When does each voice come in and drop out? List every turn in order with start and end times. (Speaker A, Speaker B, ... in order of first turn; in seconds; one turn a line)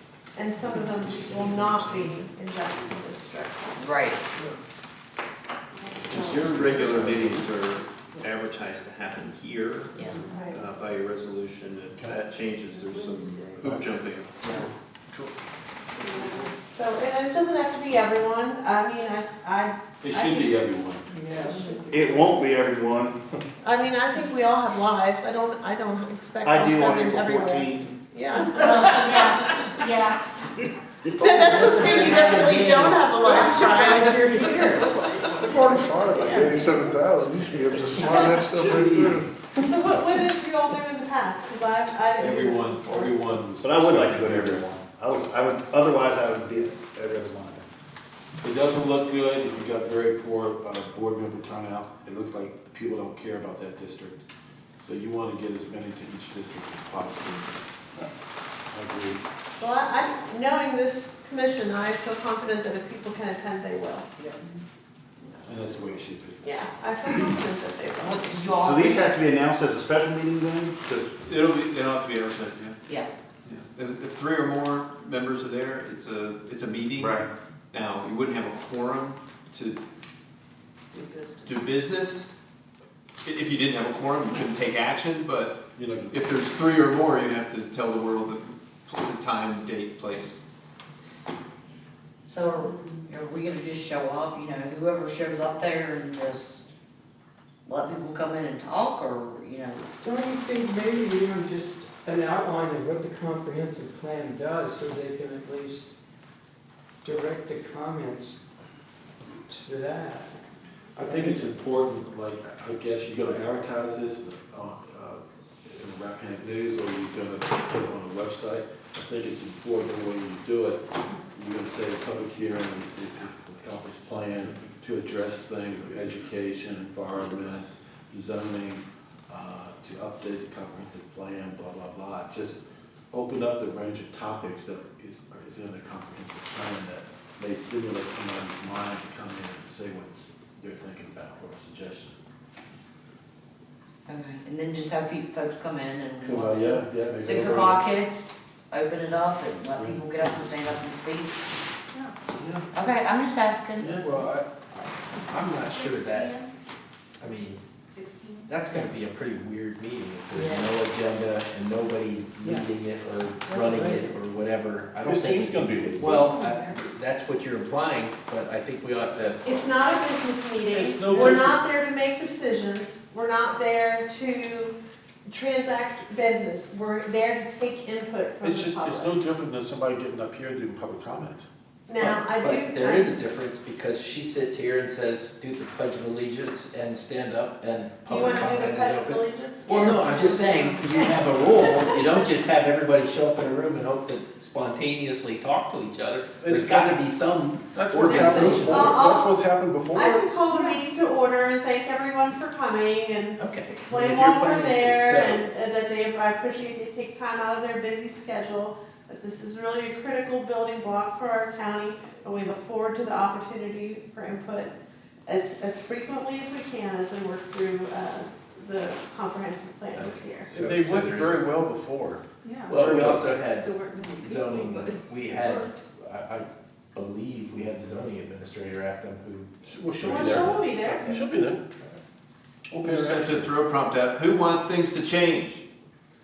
Speaker A: 0.3-3.7
Speaker B: 3.8-4.2
Speaker C: 6.1-14.7
Speaker D: 6.2-7.4
Speaker E: 6.3-7.2
Speaker B: 9.9-10.2
Speaker A: 10.3-10.6
Speaker D: 13.6-14.0
Speaker A: 16.1-20.5
Speaker D: 20.0-21.2
Speaker F: 21.1-21.9
Speaker A: 21.4-21.7
Speaker E: 21.9-23.4
Speaker A: 23.6-29.4
Speaker E: 26.4-28.0
Speaker G: 28.6-30.2
Speaker A: 31.2-34.8
Speaker F: 31.2-35.0
Speaker H: 35.4-39.3
Speaker A: 36.1-36.9
Speaker A: 38.0-38.5
Speaker A: 39.6-43.1
Speaker D: 42.2-44.7
Speaker E: 43.6-47.6
Speaker D: 48.4-54.2
Speaker D: 54.8-57.5
Speaker D: 58.7-59.2
Speaker A: 59.6-64.1
Speaker D: 65.4-66.5
Speaker A: 66.4-68.8
Speaker B: 68.0-69.3
Speaker E: 68.5-71.1
Speaker C: 71.2-72.8
Speaker C: 73.5-79.8
Speaker E: 77.0-77.3
Speaker B: 80.9-81.6
Speaker C: 81.5-82.3
Speaker C: 83.2-85.6
Speaker D: 85.8-86.2
Speaker C: 86.1-90.4
Speaker B: 92.3-96.7
Speaker B: 97.7-99.9
Speaker F: 100.0-105.9
Speaker F: 107.0-108.4
Speaker F: 109.5-110.4
Speaker D: 111.0-132.6
Speaker F: 111.0-111.5
Speaker D: 133.1-142.2
Speaker B: 144.1-151.3
Speaker D: 146.2-147.9
Speaker D: 149.8-150.8
Speaker D: 152.4-152.7
Speaker B: 152.7-153.9
Speaker D: 153.8-154.6
Speaker I: 155.2-156.4
Speaker G: 155.3-156.4
Speaker I: 157.2-157.6
Speaker G: 158.0-158.6
Speaker I: 158.5-169.5
Speaker B: 160.3-160.7
Speaker F: 163.4-164.2
Speaker D: 165.0-166.3
Speaker A: 169.4-174.8
Speaker D: 170.7-171.6
Speaker A: 175.3-179.2
Speaker D: 178.4-181.5
Speaker A: 181.9-183.2
Speaker I: 182.0-199.0
Speaker A: 188.1-191.9
Speaker D: 196.4-197.1
Speaker D: 197.7-200.2
Speaker A: 198.1-199.3
Speaker A: 199.9-214.7
Speaker I: 203.4-205.4
Speaker A: 215.2-220.5
Speaker I: 219.9-221.4
Speaker D: 220.5-223.3
Speaker F: 222.5-222.7
Speaker I: 222.7-231.2
Speaker D: 229.6-231.7
Speaker A: 230.0-231.2
Speaker D: 232.7-233.5
Speaker C: 232.8-235.6